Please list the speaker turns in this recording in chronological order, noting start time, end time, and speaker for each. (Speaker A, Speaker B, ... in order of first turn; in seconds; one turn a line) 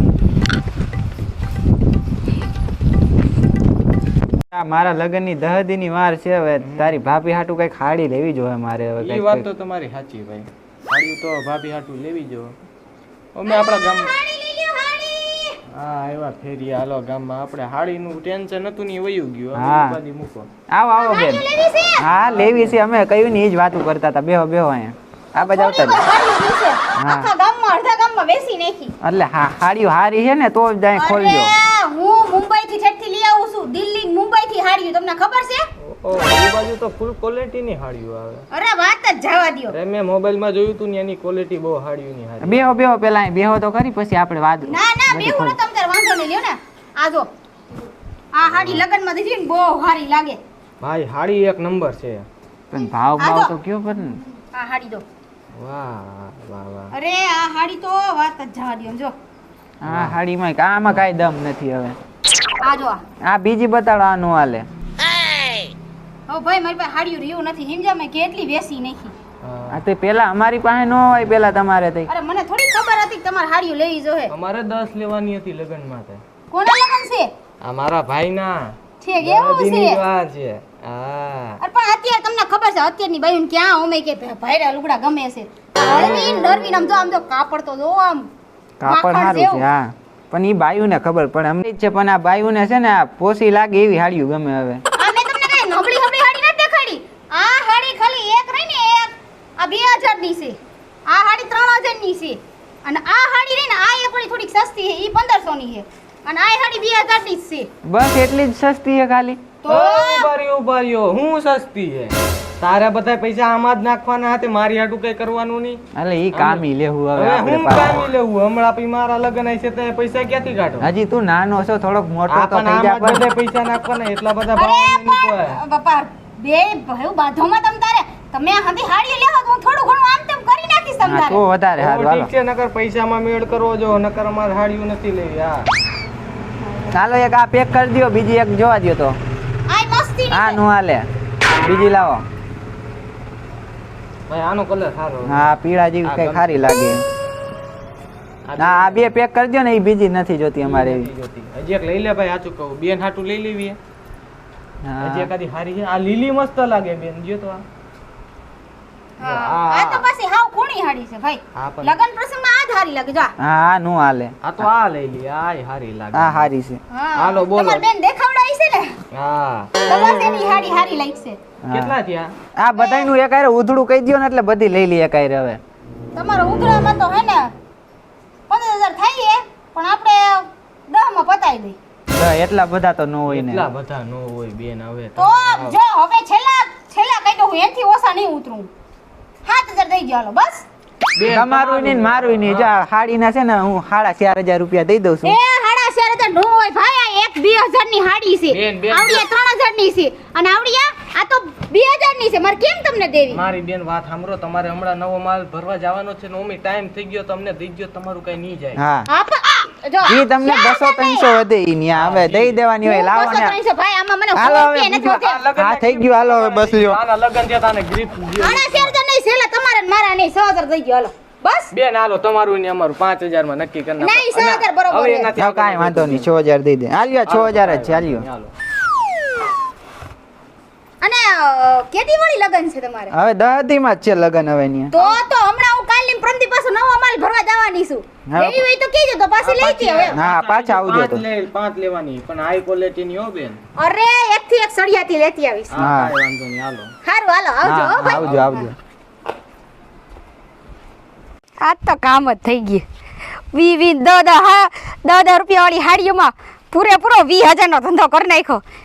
Speaker A: 4.5-9.5
Speaker B: 6.6-7.0
Speaker B: 9.0-12.6
Speaker B: 13.3-14.1
Speaker C: 13.5-15.6
Speaker B: 15.7-20.5
Speaker A: 19.6-20.0
Speaker A: 20.7-21.5
Speaker C: 21.0-22.1
Speaker A: 22.0-26.0
Speaker B: 22.1-22.8
Speaker C: 25.4-28.9
Speaker A: 27.0-27.3
Speaker A: 29.0-31.5
Speaker C: 30.9-35.7
Speaker B: 35.8-38.4
Speaker C: 38.5-39.8
Speaker B: 39.7-42.8
Speaker A: 42.4-45.6
Speaker C: 44.7-47.3
Speaker C: 48.3-50.4
Speaker B: 48.6-48.8
Speaker B: 50.8-52.3
Speaker A: 52.7-54.2
Speaker C: 52.8-53.5
Speaker C: 54.5-55.0
Speaker B: 55.5-56.9
Speaker C: 56.9-59.1
Speaker A: 59.8-62.0
Speaker B: 59.9-60.2
Speaker C: 62.6-63.0
Speaker A: 63.2-64.7
Speaker C: 66.3-69.2
Speaker B: 69.4-69.8
Speaker A: 69.7-72.1
Speaker C: 72.1-74.3
Speaker B: 74.3-76.2
Speaker C: 76.5-77.3
Speaker B: 77.6-81.6
Speaker C: 79.0-80.0
Speaker C: 81.6-88.3
Speaker A: 88.8-94.8
Speaker C: 88.8-89.7
Speaker C: 95.0-107.7
Speaker A: 107.8-109.5
Speaker C: 109.6-110.3
Speaker B: 109.7-115.8
Speaker A: 116.0-118.1
Speaker B: 116.3-120.9
Speaker A: 120.8-123.3
Speaker B: 122.3-125.6
Speaker C: 124.5-131.4
Speaker A: 131.1-132.3
Speaker B: 131.8-135.7
Speaker A: 136.9-139.2
Speaker C: 139.7-140.6
Speaker A: 140.3-142.2
Speaker B: 144.3-145.5
Speaker A: 145.3-147.0
Speaker B: 146.0-146.6
Speaker B: 148.4-149.1
Speaker A: 148.6-151.1
Speaker B: 150.6-153.8
Speaker A: 154.8-155.3
Speaker B: 155.0-157.6
Speaker C: 159.2-163.3
Speaker B: 159.2-160.1
Speaker B: 161.6-162.0
Speaker A: 163.4-164.3
Speaker B: 164.4-166.5
Speaker A: 166.1-166.8
Speaker C: 166.9-168.9
Speaker B: 167.2-167.8
Speaker B: 169.1-169.7
Speaker C: 169.9-171.4
Speaker A: 171.7-171.9
Speaker B: 171.7-172.3
Speaker A: 172.6-175.6
Speaker C: 172.8-173.1
Speaker C: 176.2-177.5
Speaker C: 178.5-181.8
Speaker A: 182.1-183.7
Speaker B: 183.3-185.8
Speaker C: 185.2-188.7
Speaker C: 189.4-190.7
Speaker B: 191.2-192.7
Speaker A: 191.3-195.4
Speaker C: 195.2-203.4
Speaker B: 198.5-199.2
Speaker B: 203.3-208.8
Speaker A: 208.8-209.1
Speaker C: 209.1-211.4
Speaker A: 210.0-213.6
Speaker B: 211.9-212.6
Speaker C: 212.8-215.4
Speaker A: 214.3-217.0
Speaker B: 215.2-219.0
Speaker C: 218.4-221.7
Speaker B: 221.7-226.3
Speaker C: 224.0-225.3
Speaker A: 225.4-228.3
Speaker B: 227.3-228.5
Speaker C: 231.0-233.1
Speaker A: 233.1-235.0
Speaker C: 234.9-240.2
Speaker A: 238.3-238.6
Speaker B: 239.4-243.6
Speaker A: 240.1-241.2
Speaker C: 243.8-245.8
Speaker B: 245.7-246.9
Speaker A: 245.8-246.1
Speaker C: 247.1-248.3
Speaker A: 247.6-248.8
Speaker B: 248.1-248.6
Speaker C: 251.6-252.8
Speaker C: 253.5-258.6